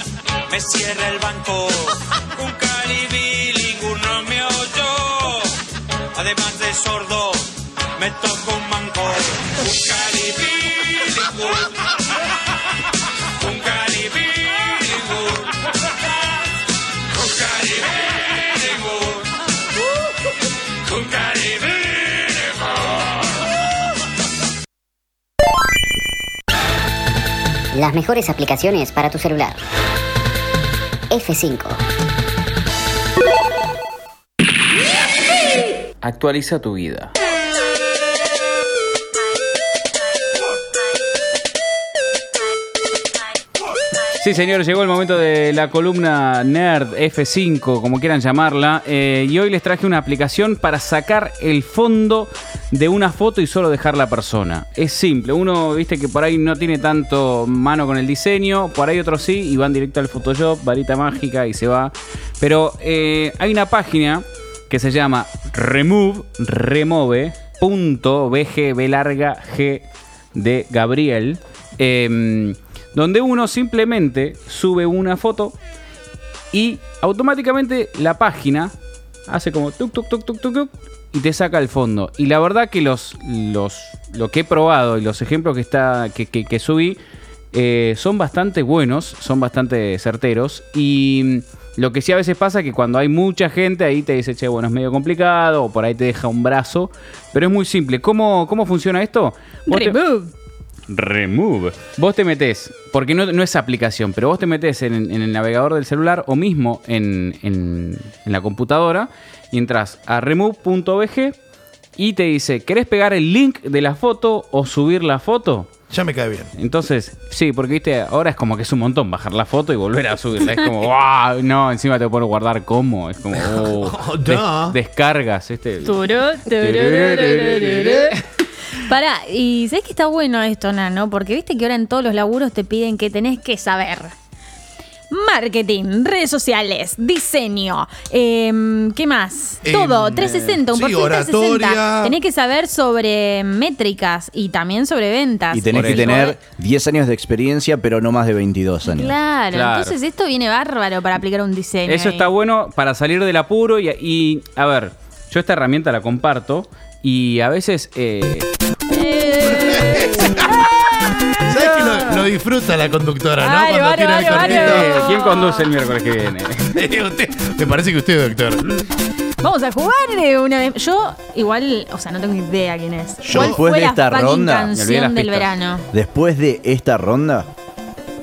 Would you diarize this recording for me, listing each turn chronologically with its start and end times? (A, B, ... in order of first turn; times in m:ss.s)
0:00.5-0:05.4 A
0:06.2-0:07.4 A
0:08.0-0:11.7 A
0:13.4-0:15.5 A
0:17.4-0:17.8 A
0:18.4-0:19.2 A
0:21.0-0:21.6 A
0:27.7-0:29.6 B
0:31.1-0:31.8 B
0:36.1-0:36.7 C
0:44.2-1:15.5 C
1:16.5-1:18.7 C
1:19.3-1:27.0 C
1:27.5-1:40.0 C
1:39.7-1:40.3 D
1:40.9-1:51.4 C
1:52.0-1:55.7 C
1:55.9-1:56.5 E
1:56.6-2:08.1 C
2:03.4-2:04.8 E
2:05.8-2:08.1 D
2:08.7-2:14.1 D
2:15.1-2:26.4 D
2:19.6-2:22.2 E
2:25.5-2:29.1 F
2:25.7-2:26.2 C
2:28.8-2:32.3 D
2:29.5-2:29.9 C
2:31.9-2:38.5 C
2:38.9-2:40.6 D
2:39.5-2:40.6 E
2:41.4-2:45.0 E
2:43.4-2:45.6 D
2:44.3-2:46.8 C
2:46.7-2:48.6 E
2:49.4-2:55.8 D
2:53.2-2:53.6 E
2:53.3-2:54.7 F
2:54.7-2:55.5 C
2:55.9-2:57.5 F